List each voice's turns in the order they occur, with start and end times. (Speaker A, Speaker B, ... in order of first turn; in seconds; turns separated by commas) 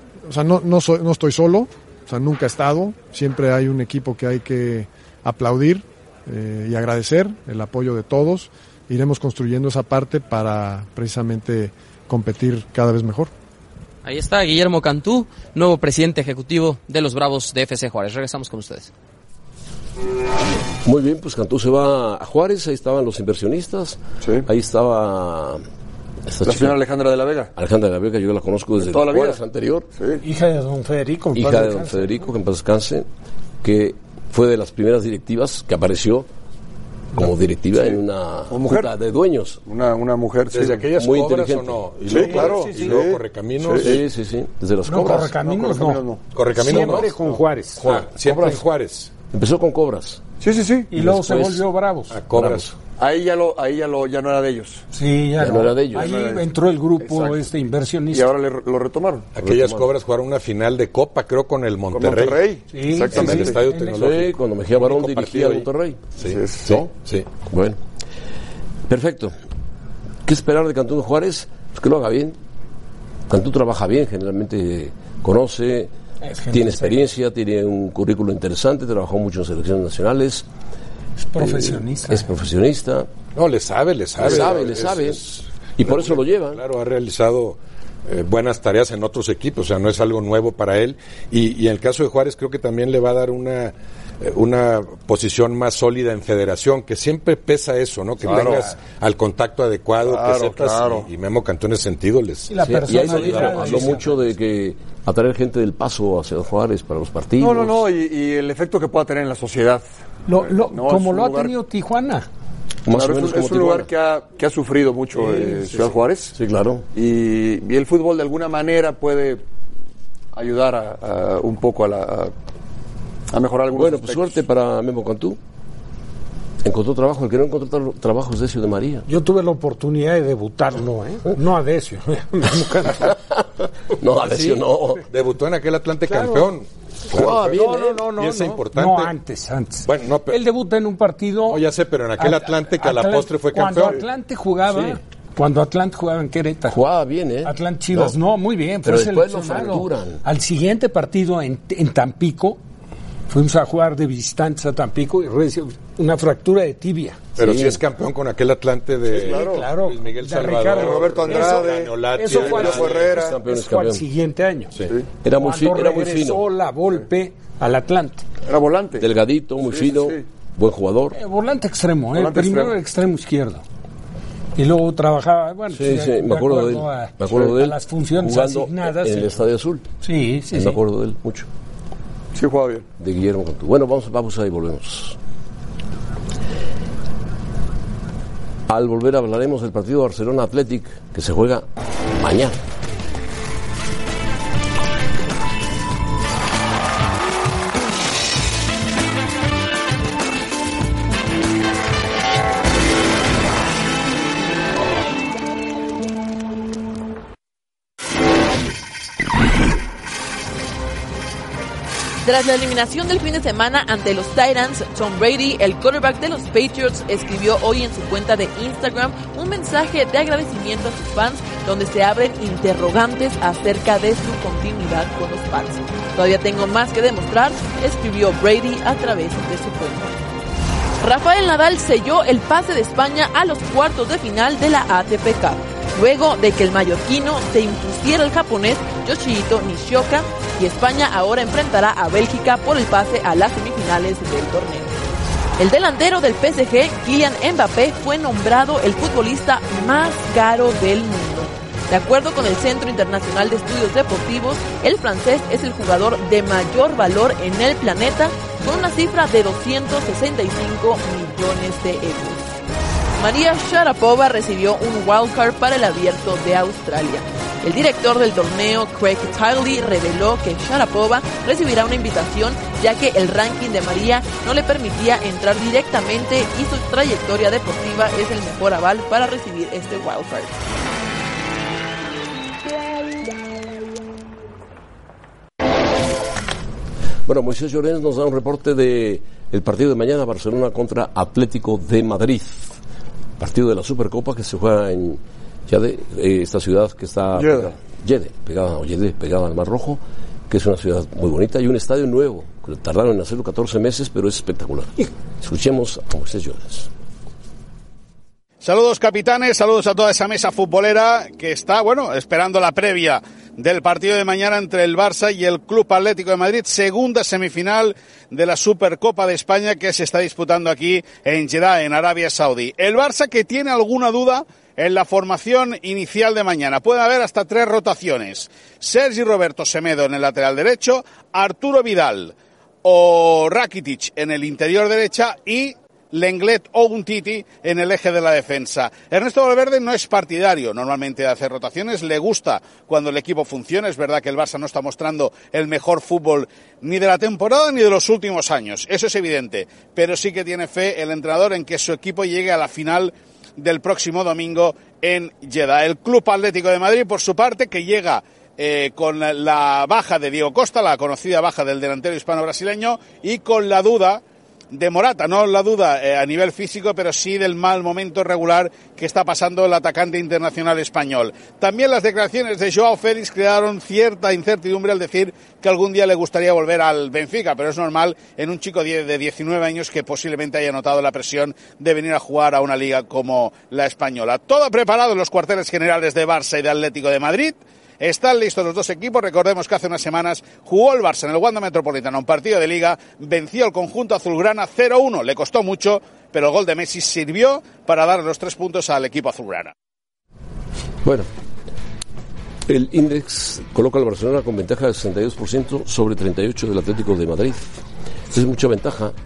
Speaker A: 0.3-13.3, Speaker B: 14.0-18.9, Speaker C: 20.8-25.6, Speaker C: 26.3-26.8, Speaker D: 26.4-27.5, Speaker C: 27.6-29.9, Speaker D: 28.8-29.4, Speaker E: 30.2-32.2, Speaker C: 31.3-33.1, Speaker C: 33.6-36.3, Speaker C: 37.1-39.6, Speaker D: 38.5-38.9, Speaker D: 39.6-40.9, Speaker F: 40.5-44.0, Speaker C: 41.0-41.8, Speaker D: 42.1-43.9, Speaker E: 42.1-43.0, Speaker C: 43.8-45.4, Speaker E: 44.9-46.0, Speaker D: 45.4-46.2, Speaker F: 46.3-49.1, Speaker E: 46.5-48.6, Speaker C: 47.8-48.4, Speaker C: 49.3-50.2, Speaker D: 50.4-50.9, Speaker E: 50.9-52.2, Speaker C: 50.9-51.7, Speaker F: 52.1-52.7, Speaker C: 52.3-52.7, Speaker D: 53.0-54.8, Speaker E: 54.9-58.3, Speaker C: 55.4-56.1, Speaker D: 55.9-57.4, Speaker D: 58.1-59.3, Speaker F: 59.4-62.4, Speaker C: 59.4-59.9, Speaker D: 61.9-63.6, Speaker E: 62.7-64.2, Speaker F: 63.1-65.7, Speaker C: 64.0-66.0, Speaker F: 66.2-67.3, Speaker D: 66.2-66.9, Speaker C: 67.5-67.8, Speaker C: 68.9-69.3, Speaker C: 70.2-72.4, Speaker C: 73.3-75.9, Speaker E: 76.2-77.1, Speaker C: 76.5-80.5, Speaker E: 81.2-82.3, Speaker C: 81.4-83.1, Speaker F: 83.4-104.0, Speaker C: 84.2-85.2, Speaker C: 85.8-86.6, Speaker E: 98.2-98.7, Speaker D: 98.2-98.6, Speaker D: 100.0-101.1, Speaker E: 102.5-104.1, Speaker C: 102.6-107.9, Speaker D: 107.4-109.8, Speaker E: 110.3-112.3, Speaker D: 110.4-111.5, Speaker C: 112.9-113.9, Speaker D: 112.9-116.4, Speaker C: 116.3-116.9, Speaker D: 116.9-119.4, Speaker D: 120.3-122.3, Speaker D: 123.3-124.4, Speaker C: 123.7-125.4, Speaker C: 126.6-129.1, Speaker E: 129.1-133.2, Speaker C: 133.1-135.0, Speaker F: 135.1-139.1, Speaker E: 136.1-136.5, Speaker C: 137.1-138.0, Speaker E: 137.5-141.6, Speaker F: 139.8-140.4, Speaker F: 141.5-144.0, Speaker E: 142.2-146.8, Speaker C: 146.7-148.2, Speaker E: 147.4-152.6, Speaker C: 148.8-150.2, Speaker E: 153.3-157.2, Speaker F: 157.4-163.1, Speaker C: 157.4-157.8, Speaker D: 159.1-159.7, Speaker E: 159.2-164.8, Speaker D: 160.7-163.4, Speaker C: 162.4-164.0, Speaker C: 165.2-166.4, Speaker E: 165.3-168.3, Speaker D: 168.4-169.1, Speaker C: 169.0-171.2, Speaker D: 169.7-170.2, Speaker E: 171.1-173.6, Speaker D: 172.1-172.8, Speaker E: 174.6-179.4, Speaker C: 175.7-179.9, Speaker E: 180.0-180.8, Speaker C: 180.5-181.5, Speaker D: 182.3-182.9, Speaker C: 183.0-185.2, Speaker C: 188.7-192.6, Speaker G: 212.2-230.2, Speaker G: 231.0-244.9, Speaker G: 245.6-262.5, Speaker G: 263.2-280.6, Speaker C: 287.3-292.8, Speaker C: 293.4-306.9, Speaker D: 297.4-297.8, Speaker H: 308.6-399.7, Speaker C: 401.0-401.3, Speaker C: 402.7-407.7, Speaker C: 408.3-409.1